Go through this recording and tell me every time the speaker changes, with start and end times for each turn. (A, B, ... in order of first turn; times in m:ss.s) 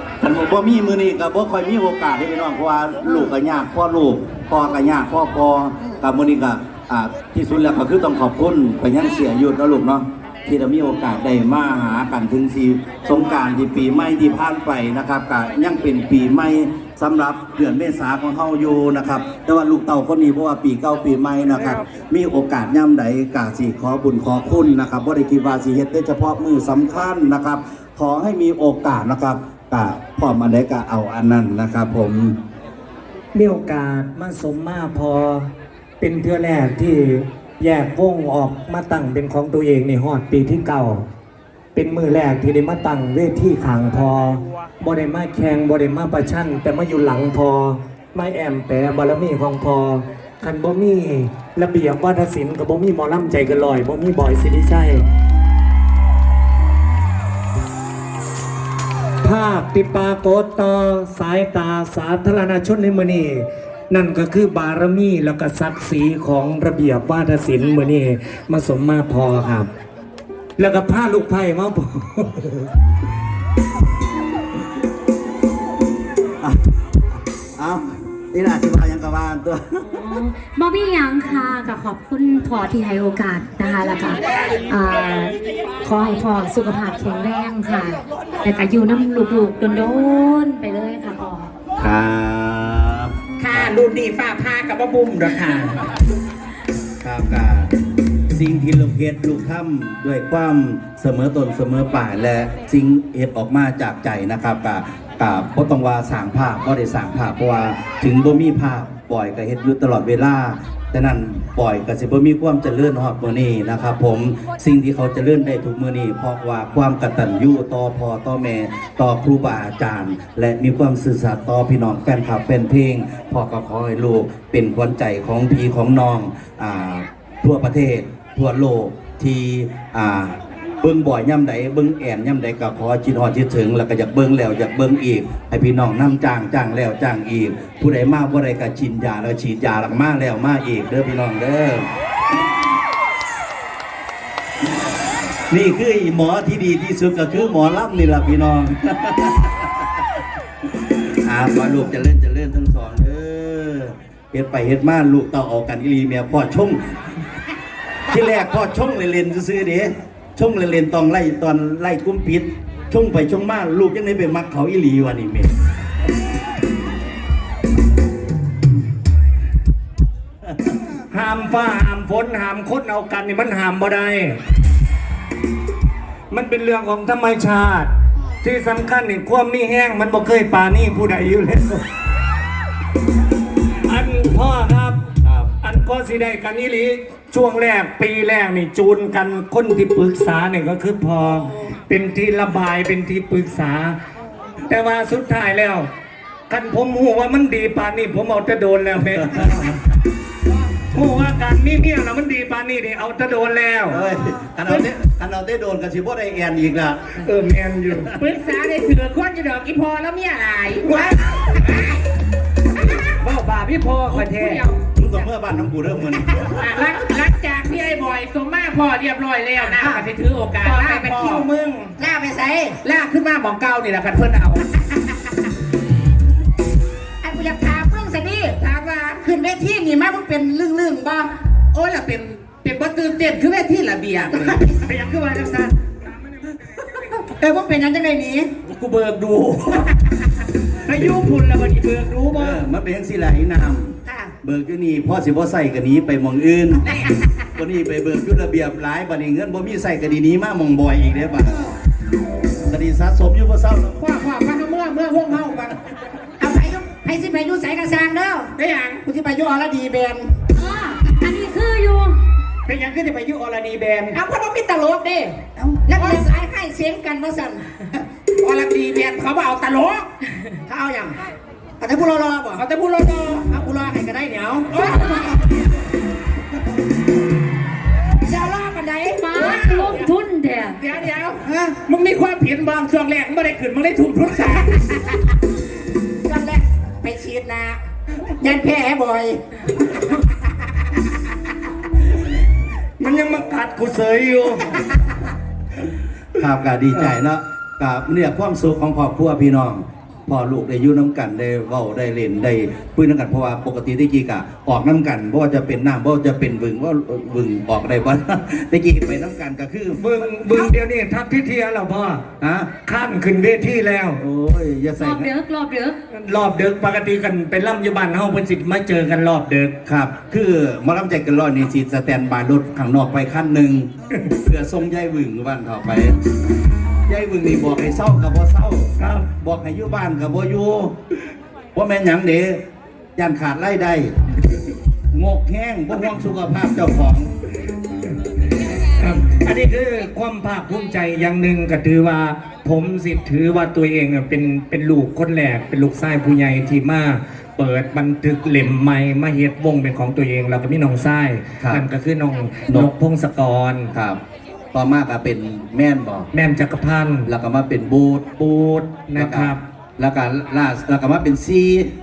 0:00.2-0:32.4 A
0:33.3-0:35.5 B
0:36.0-0:41.1 B
0:41.8-0:55.0 B
0:59.2-1:09.7 B
1:10.6-1:12.7 B
1:17.6-1:19.9 A
1:19.8-1:31.5 C
1:31.8-1:33.8 A
1:33.4-1:35.8 D
1:37.0-1:37.7 A
1:38.3-2:21.9 A
2:25.5-2:29.8 A
2:30.8-2:36.8 A
2:38.1-2:45.5 A
2:51.1-2:54.4 B
2:56.3-2:57.9 B
2:58.4-3:01.8 B
3:03.9-3:05.0 B
3:05.2-3:05.5 A
3:05.6-3:14.0 B
3:14.7-3:15.9 B
3:16.5-3:19.8 B
3:19.1-3:19.8 A
3:20.9-3:24.0 B
3:23.9-3:27.3 A
3:27.2-3:28.2 B
3:28.1-3:32.0 D
3:32.7-3:33.2 D
3:33.2-3:34.6 E
3:34.1-3:34.4 A
3:34.2-3:34.8 D
3:35.0-3:36.8 A
3:36.5-3:41.5 D
3:39.6-3:40.1 F
3:40.6-3:41.4 F
3:40.9-3:41.5 E
3:42.0-3:42.8 F
3:42.8-3:44.7 D
3:47.2-3:48.6 F
3:48.6-3:49.2 D
3:49.2-3:51.3 F
3:51.7-3:54.6 D
3:54.5-3:54.8 F
3:54.8-3:55.7 E
3:57.4-3:58.6 F
3:58.7-3:59.9 E
4:00.9-4:02.6 E
4:02.3-4:07.0 A
4:07.6-4:11.6 A
4:12.7-4:14.0 A
4:14.0-4:14.8 D
4:14.1-4:15.7 F
4:16.4-4:18.5 F
4:18.6-4:19.0 D
4:19.0-4:20.3 F
4:20.6-4:22.2 C
4:22.7-4:24.2 E
4:24.1-4:28.0 F
4:28.4-4:30.1 D
4:30.7-4:31.2 F
4:31.8-4:32.6 F
4:32.6-4:33.5 D
4:33.5-4:35.3 F
4:34.7-4:35.3 D
4:38.2-4:39.6 F
4:39.2-4:40.1 D
4:39.2-4:40.8 C
4:40.8-4:45.2 D
4:41.5-4:41.8 F
4:46.3-4:47.7 F
4:47.0-4:47.8 D
4:48.4-4:49.4 F
4:53.0-4:54.8 B
4:56.4-5:10.7 A
5:10.0-5:12.3 B
5:12.4-5:12.7 A
5:12.8-5:14.2 B
5:14.2-5:15.3 A
5:15.0-5:16.0 C
5:16.1-5:19.8 B
5:19.9-5:26.2 A
5:27.1-5:31.0 A
5:29.0-5:29.3 B
5:31.8-5:32.6 A
5:33.2-5:34.2 A
5:35.1-5:37.3 A
5:39.0-5:53.9 B
5:51.6-5:51.8 A
5:53.9-5:54.2 A
5:54.7-5:56.3 A
5:56.3-5:57.3 B
5:57.3-5:58.4 A
5:58.4-5:59.6 B
5:59.2-6:01.9 A